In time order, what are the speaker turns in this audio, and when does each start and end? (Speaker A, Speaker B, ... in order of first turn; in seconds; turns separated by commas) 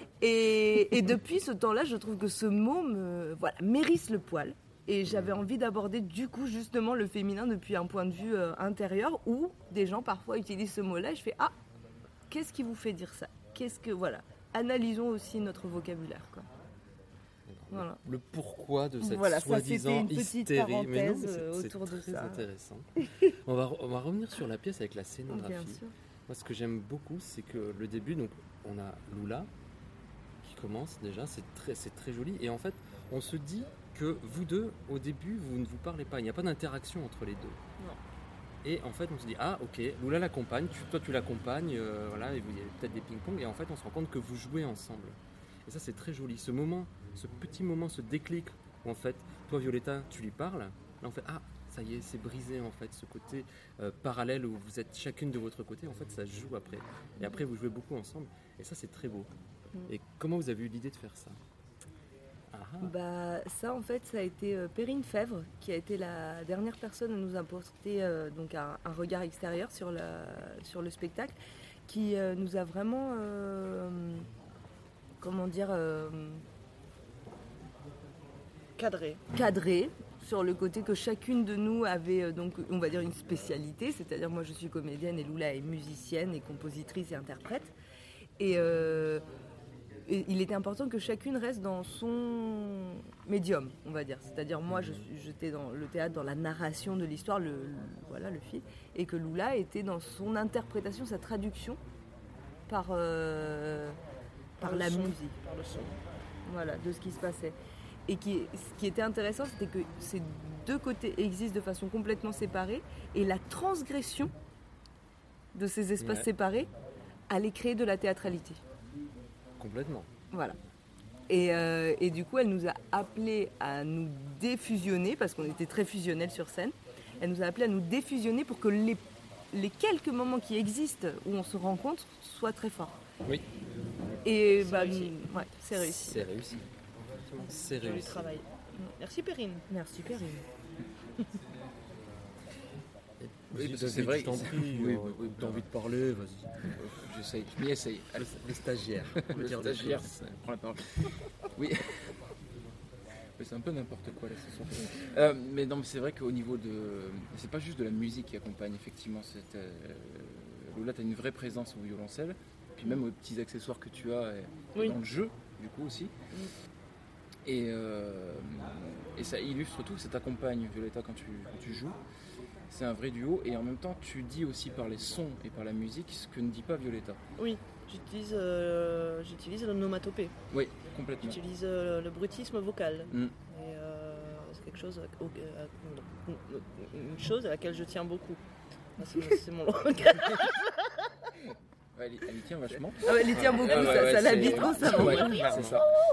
Speaker A: 0.2-11.5, Speaker B: 5.0-5.3, Speaker A: 12.3-16.5, Speaker B: 17.5-29.5, Speaker A: 17.7-18.0, Speaker A: 19.0-22.5, Speaker A: 25.3-25.9, Speaker B: 30.4-37.6, Speaker B: 38.6-59.3, Speaker B: 59.9-61.4, Speaker B: 62.5-62.9, Speaker A: 62.8-71.3, Speaker A: 71.9-74.3, Speaker A: 75.2-76.4, Speaker C: 78.8-79.2, Speaker A: 79.3-87.7, Speaker A: 88.4-89.2, Speaker A: 90.1-101.8, Speaker B: 94.7-95.0, Speaker A: 102.7-104.0, Speaker A: 104.6-105.3, Speaker C: 104.6-106.0, Speaker A: 106.5-107.5, Speaker A: 108.1-114.3, Speaker A: 115.5-116.7, Speaker B: 116.0-116.3, Speaker A: 117.3-118.6, Speaker B: 119.6-120.1, Speaker A: 120.3-120.6, Speaker A: 121.3-133.0, Speaker A: 134.2-136.3, Speaker B: 135.8-136.6, Speaker B: 137.2-138.4, Speaker C: 137.8-138.4, Speaker C: 139.0-139.6, Speaker A: 139.7-140.4, Speaker B: 143.2-146.8, Speaker D: 143.5-145.7, Speaker D: 146.6-148.4, Speaker B: 148.2-150.1, Speaker D: 149.2-152.2, Speaker D: 153.4-166.1, Speaker D: 167.4-172.0, Speaker D: 172.7-177.2, Speaker C: 177.4-180.3, Speaker D: 180.5-181.4, Speaker C: 181.2-188.4, Speaker C: 189.0-190.7, Speaker D: 191.9-195.9, Speaker A: 193.0-195.7, Speaker B: 194.2-195.8